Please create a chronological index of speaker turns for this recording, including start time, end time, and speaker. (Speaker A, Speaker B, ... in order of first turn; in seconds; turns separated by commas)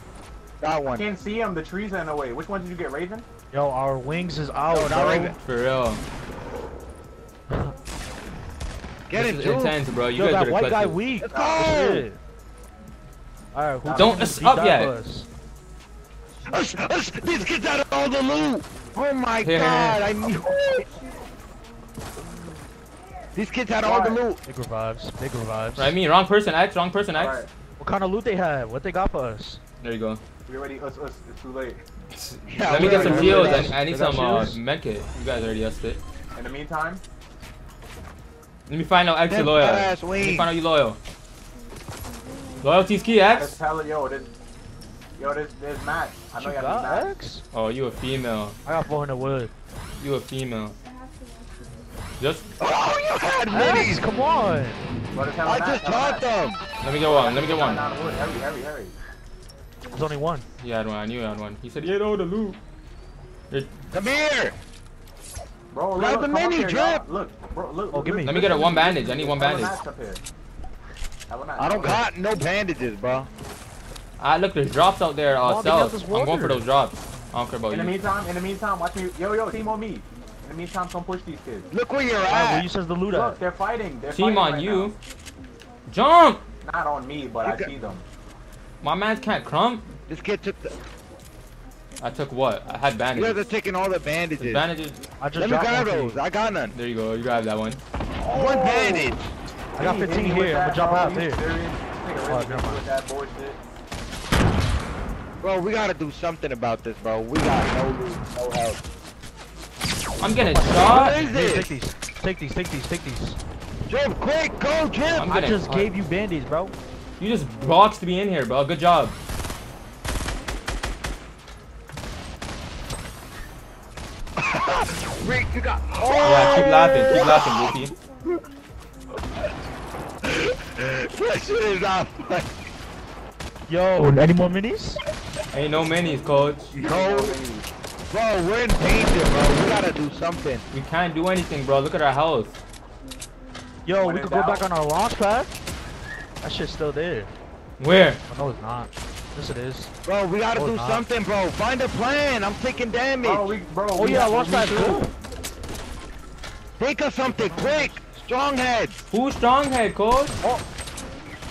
Speaker A: 0.6-1.1, Speaker B: 0.9-3.3, Speaker C: 3.5-5.3, Speaker A: 4.7-5.4, Speaker D: 5.5-6.0, Speaker A: 9.1-9.8, Speaker D: 9.1-11.0, Speaker C: 10.2-12.2, Speaker A: 11.2-12.1, Speaker B: 11.3-11.7, Speaker C: 13.5-15.3, Speaker B: 13.8-14.2, Speaker D: 14.0-14.9, Speaker A: 16.5-20.9, Speaker D: 19.4-20.0, Speaker A: 23.3-24.4, Speaker B: 23.8-24.2, Speaker C: 24.5-25.9, Speaker D: 25.8-27.4, Speaker B: 27.1-27.5, Speaker C: 27.8-29.6, Speaker D: 29.8-30.2, Speaker B: 30.5-31.8, Speaker D: 32.1-36.0, Speaker A: 32.5-33.8, Speaker C: 32.7-34.6, Speaker B: 32.9-33.3, Speaker B: 36.3-37.0, Speaker D: 38.7-41.0, Speaker A: 39.3-40.5, Speaker D: 42.6-43.6, Speaker B: 43.3-44.3, Speaker B: 45.2-47.1, Speaker C: 46.4-47.4, Speaker D: 47.5-48.6, Speaker C: 48.6-49.5, Speaker D: 50.0-50.8, Speaker D: 52.2-52.5, Speaker A: 52.6-54.0, Speaker C: 53.5-54.8, Speaker B: 55.1-56.2, Speaker A: 55.4-56.6, Speaker D: 56.8-57.9, Speaker B: 57.0-58.9, Speaker C: 59.9-60.5, Speaker D: 60.6-62.6, Speaker D: 63.5-63.8, Speaker A: 63.9-64.6, Speaker B: 65.7-70.2, Speaker A: 66.0-67.0, Speaker C: 67.9-68.5, Speaker D: 68.2-69.8, Speaker B: 71.3-72.0, Speaker A: 71.6-73.3, Speaker D: 74.2-78.0, Speaker C: 75.4-76.6, Speaker B: 77.7-81.7, Speaker A: 81.7-82.7, Speaker C: 82.3-83.4, Speaker B: 83.1-84.9, Speaker D: 84.1-85.0, Speaker D: 85.9-86.4, Speaker B: 86.6-88.0, Speaker A: 87.4-87.7, Speaker D: 88.8-89.9, Speaker A: 90.1-90.7, Speaker D: 92.0-93.4, Speaker A: 93.2-94.6, Speaker D: 94.4-95.0, Speaker C: 95.2-96.2, Speaker A: 95.4-96.8, Speaker D: 96.7-97.8, Speaker B: 98.2-99.2, Speaker A: 98.3-99.2, Speaker C: 99.8-101.5, Speaker B: 99.8-103.6, Speaker C: 102.2-102.8, Speaker A: 105.4-108.8, Speaker D: 110.2-111.2, Speaker C: 110.3-113.4, Speaker A: 110.8-111.7, Speaker A: 113.9-115.3, Speaker D: 115.1-115.9, Speaker C: 115.3-116.7, Speaker D: 117.2-119.2, Speaker A: 124.4-128.3, Speaker D: 126.2-128.0, Speaker A: 130.2-132.5, Speaker C: 133.7-135.0, Speaker D: 135.5-136.7, Speaker A: 136.7-137.4, Speaker B: 136.8-137.7, Speaker A: 138.1-140.6, Speaker D: 140.7-142.6, Speaker C: 143.9-145.6, Speaker B: 144.0-144.7, Speaker C: 146.4-147.3, Speaker D: 147.8-148.2, Speaker C: 148.3-149.9, Speaker A: 150.1-153.5, Speaker C: 150.6-151.0, Speaker B: 153.2-155.1, Speaker C: 154.0-155.1, Speaker A: 156.8-159.1, Speaker C: 157.2-158.0, Speaker D: 159.1-160.4